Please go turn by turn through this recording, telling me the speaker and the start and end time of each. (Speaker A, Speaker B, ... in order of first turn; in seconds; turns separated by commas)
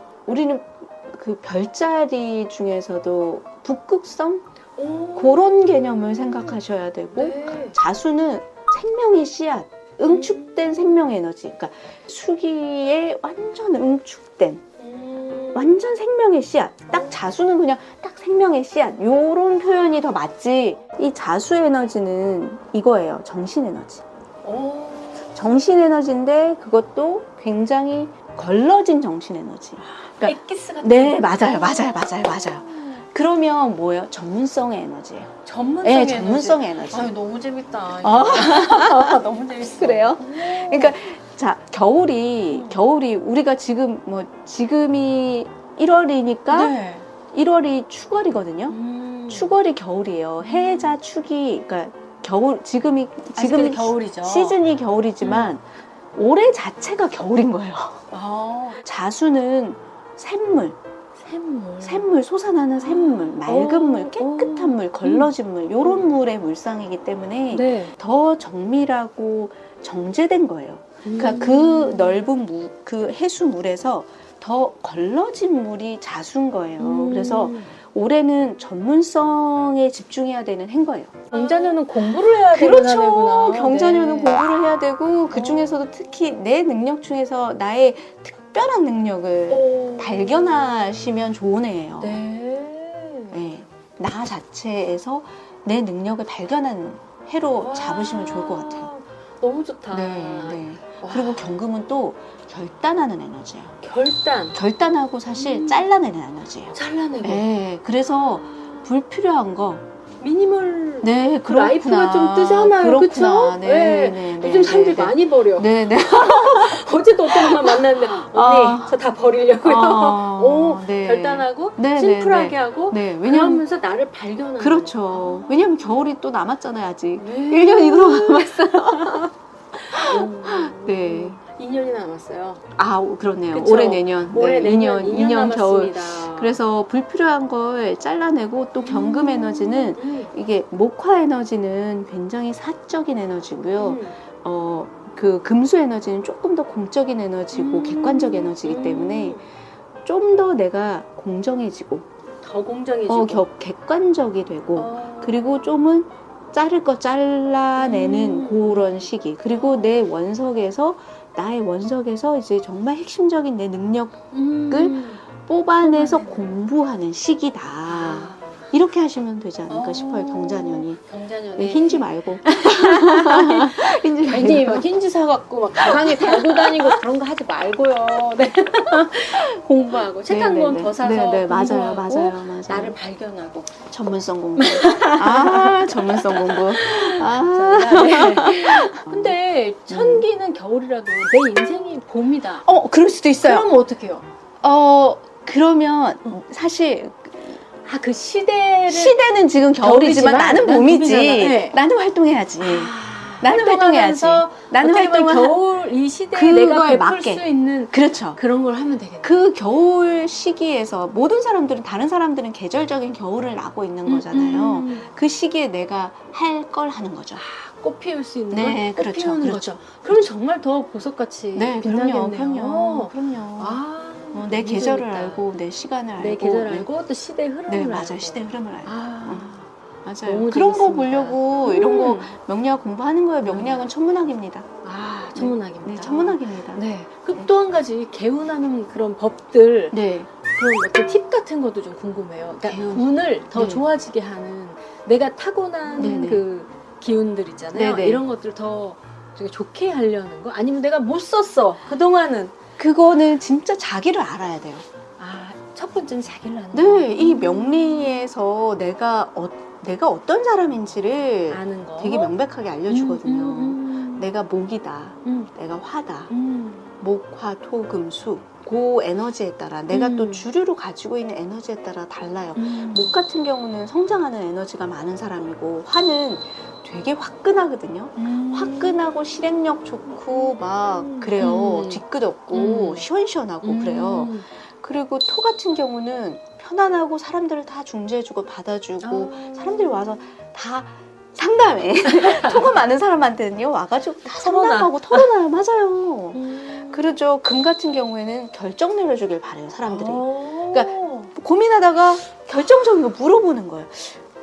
Speaker A: 0.3-4.5, Speaker B: 4.8-6.5, Speaker A: 5.2-14.6, Speaker B: 7.1-7.8, Speaker B: 10.1-11.1, Speaker B: 14.8-15.8, Speaker A: 15.5-24.0, Speaker B: 16.9-17.2, Speaker B: 24.4-25.4, Speaker A: 25.4-37.1, Speaker B: 29.8-33.0, Speaker B: 35.5-41.0, Speaker A: 38.0-39.2, Speaker A: 39.8-46.7, Speaker B: 42.5-42.8, Speaker B: 46.5-47.1, Speaker A: 47.3-48.8, Speaker B: 48.7-49.6, Speaker A: 49.3-58.1, Speaker B: 50.4-51.0, Speaker B: 53.4-54.6, Speaker B: 55.2-55.5, Speaker B: 58.1-58.8, Speaker A: 58.8-60.8, Speaker B: 61.2-62.2, Speaker A: 61.8-92.2, Speaker B: 62.8-65.3, Speaker B: 65.8-66.1, Speaker B: 67.5-68.0, Speaker B: 71.0-72.3, Speaker B: 76.8-77.7, Speaker B: 81.3-84.4, Speaker B: 85.3-85.8, Speaker B: 89.5-90.8, Speaker B: 92.0-93.4, Speaker A: 93.3-98.9, Speaker B: 97.6-101.5, Speaker A: 99.9-103.8, Speaker B: 103.8-104.6, Speaker A: 104.5-109.8, Speaker B: 105.3-105.9, Speaker B: 106.7-107.5, Speaker B: 108.5-108.8, Speaker B: 110.2-125.7, Speaker A: 111.0-119.0, Speaker A: 119.6-123.6, Speaker A: 124.6-129.3, Speaker B: 127.2-129.3, Speaker A: 129.9-131.4, Speaker B: 129.9-132.6, Speaker A: 132.8-149.4, Speaker B: 133.5-136.6, Speaker B: 138.8-140.3, Speaker B: 143.8-144.2, Speaker B: 147.5-149.4, Speaker A: 150.1-152.1, Speaker B: 152.4-153.5, Speaker A: 153.1-171.0, Speaker B: 154.8-155.7, Speaker B: 157.8-160.1, Speaker B: 164.3-165.2, Speaker B: 165.8-166.5, Speaker B: 167.9-168.7, Speaker B: 169.7-183.8, Speaker A: 171.6-174.8, Speaker A: 175.8-177.0, Speaker A: 179.4-182.9, Speaker A: 183.9-189.3, Speaker B: 184.6-192.7, Speaker A: 189.9-190.2, Speaker A: 192.6-193.7, Speaker B: 193.4-194.3, Speaker A: 194.6-197.6, Speaker B: 197.8-199.2, Speaker A: 198.9-205.6, Speaker B: 199.8-201.8, Speaker B: 202.6-209.5, Speaker A: 206.3-208.4, Speaker A: 209.2-217.4, Speaker B: 214.1-215.1, Speaker B: 217.4-225.4, Speaker A: 218.5-220.3, Speaker A: 221.6-223.8, Speaker A: 224.3-226.9, Speaker B: 226.2-229.7, Speaker A: 227.7-229.5, Speaker A: 230.1-234.7, Speaker B: 230.2-232.3, Speaker B: 233.4-233.9, Speaker B: 234.8-240.0, Speaker A: 235.3-237.5, Speaker A: 239.9-240.3, Speaker B: 240.5-252.6, Speaker A: 242.7-243.8, Speaker A: 246.0-246.4, Speaker A: 247.7-248.2, Speaker A: 252.8-254.8, Speaker B: 255.2-258.3, Speaker A: 256.7-266.3, Speaker B: 261.5-262.3, Speaker B: 262.9-264.3, Speaker B: 265.2-265.5, Speaker B: 266.3-267.0, Speaker A: 267.0-304.2, Speaker B: 269.9-270.5, Speaker B: 272.6-273.1, Speaker B: 278.2-279.0, Speaker B: 280.4-283.1, Speaker B: 283.6-284.5, Speaker B: 289.0-290.1, Speaker B: 292.1-292.8, Speaker B: 294.3-295.3, Speaker B: 296.3-297.1, Speaker B: 299.9-301.3